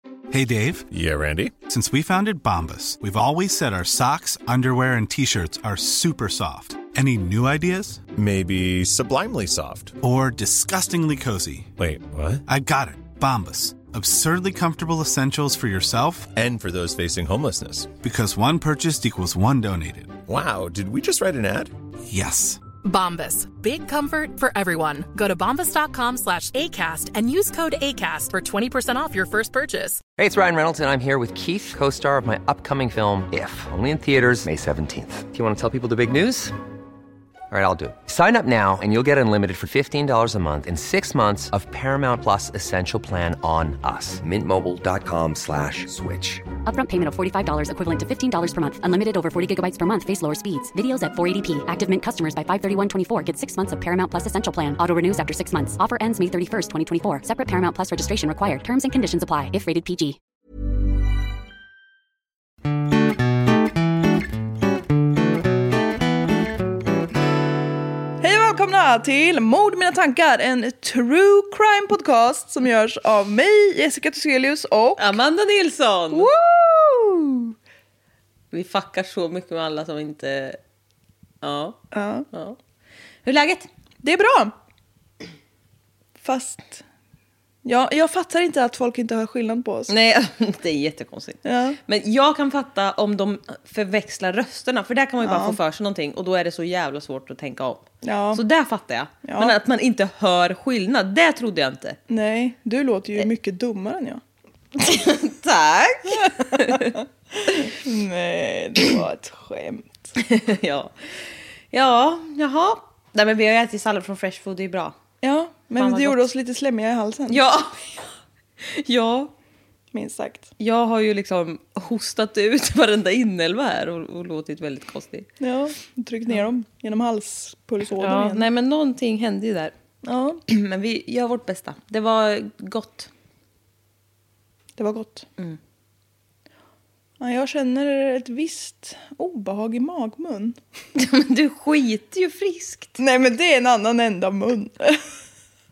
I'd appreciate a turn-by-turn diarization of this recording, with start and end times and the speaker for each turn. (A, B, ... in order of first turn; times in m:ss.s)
0:00.3-0:00.9 A
0:00.9-0:01.5 B
0:01.7-0:08.0 A
0:08.2-0:10.0 B
0:10.0-0:11.7 A
0:11.8-0:12.4 B
0:12.5-0:16.3 A
0:16.4-0:17.9 B
0:18.0-0:20.2 A
0:20.3-0:21.7 B
0:22.1-0:22.6 A
0:22.8-0:30.0 C
0:30.2-0:36.6 D
0:37.5-0:46.5 D
0:46.6-1:00.2 E
1:08.2-1:15.2 F
1:15.0-1:16.3 G
1:16.1-1:17.6 F
1:18.5-1:20.6 G
1:21.4-1:21.8 G
1:21.9-1:22.3 F
1:22.3-1:22.6 G
1:23.2-1:23.7 G
1:24.0-1:24.6 F
1:26.2-1:26.8 F
1:27.6-1:29.9 F
1:29.9-1:42.0 G
1:31.4-1:31.8 F
1:35.2-1:35.6 F
1:38.0-1:38.4 F
1:39.2-1:39.6 F
1:42.1-1:44.2 F
1:44.8-1:47.0 G
1:46.2-1:50.1 F
1:50.2-1:55.0 G
1:55.2-1:57.5 F
1:55.8-1:56.3 G
1:57.3-1:59.3 G
1:59.9-2:00.5 F
2:00.6-2:05.3 G
2:05.4-2:08.5 F
2:08.0-2:09.7 G
2:10.0-2:10.4 F
2:10.5-2:13.1 G
2:14.8-2:15.3 F
2:17.2-2:20.6 F
2:21.0-2:23.0 G
2:23.0-2:25.1 F